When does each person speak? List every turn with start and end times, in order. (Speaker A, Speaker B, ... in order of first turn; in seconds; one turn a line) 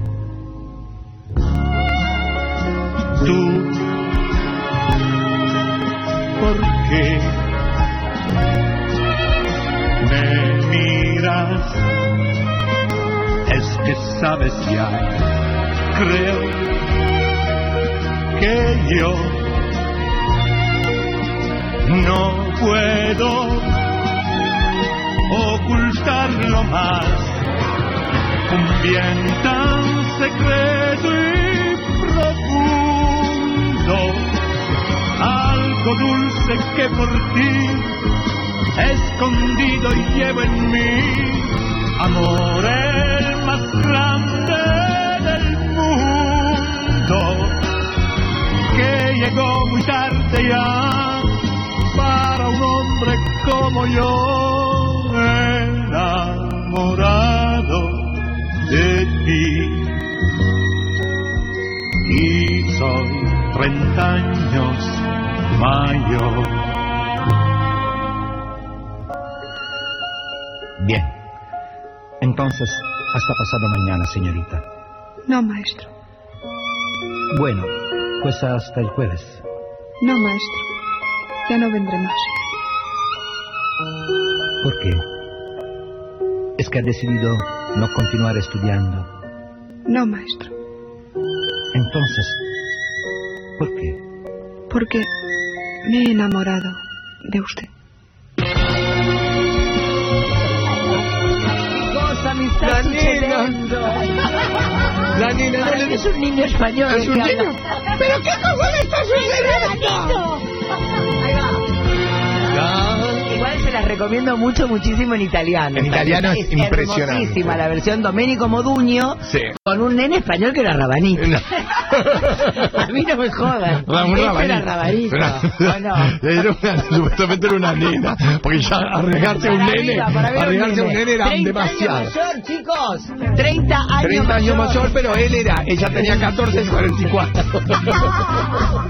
Speaker A: 3.1-4.0
Speaker A: 6.4-7.4
Speaker A: 10.0-12.1
Speaker A: 13.4-15.2
Speaker A: 15.9-16.9
Speaker A: 18.4-19.7
Speaker A: 21.8-23.9
Speaker A: 25.3-27.5
Speaker A: 28.5-34.4
Speaker A: 35.1-38.0
Speaker A: 38.8-47.7
Speaker A: 48.7-60.1
Speaker A: 62.0-66.7
Speaker B: 70.8-71.1
Speaker B: 72.2-74.7
Speaker C: 75.3-75.9
Speaker B: 77.3-79.4
Speaker C: 80.0-80.7
Speaker C: 81.5-82.3
Speaker B: 84.6-85.0
Speaker B: 86.6-89.1
Speaker C: 89.9-90.5
Speaker B: 91.7-92.4
Speaker B: 93.6-94.0
Speaker C: 94.7-95.1
Speaker C: 95.8-97.7
Speaker D: 101.7-104.3
Speaker E: 102.6-103.6
Speaker E: 105.1-106.1
Speaker D: 105.5-108.0
Speaker E: 106.9-110.2
Speaker D: 108.7-110.4
Speaker D: 111.2-111.6
Speaker E: 112.5-113.3
Speaker D: 113.2-126.2
Speaker E: 115.8-117.6
Speaker E: 119.2-119.5
Speaker E: 121.2-122.7
Speaker E: 123.8-132.1
Speaker D: 129.2-135.1
Speaker E: 134.0-138.4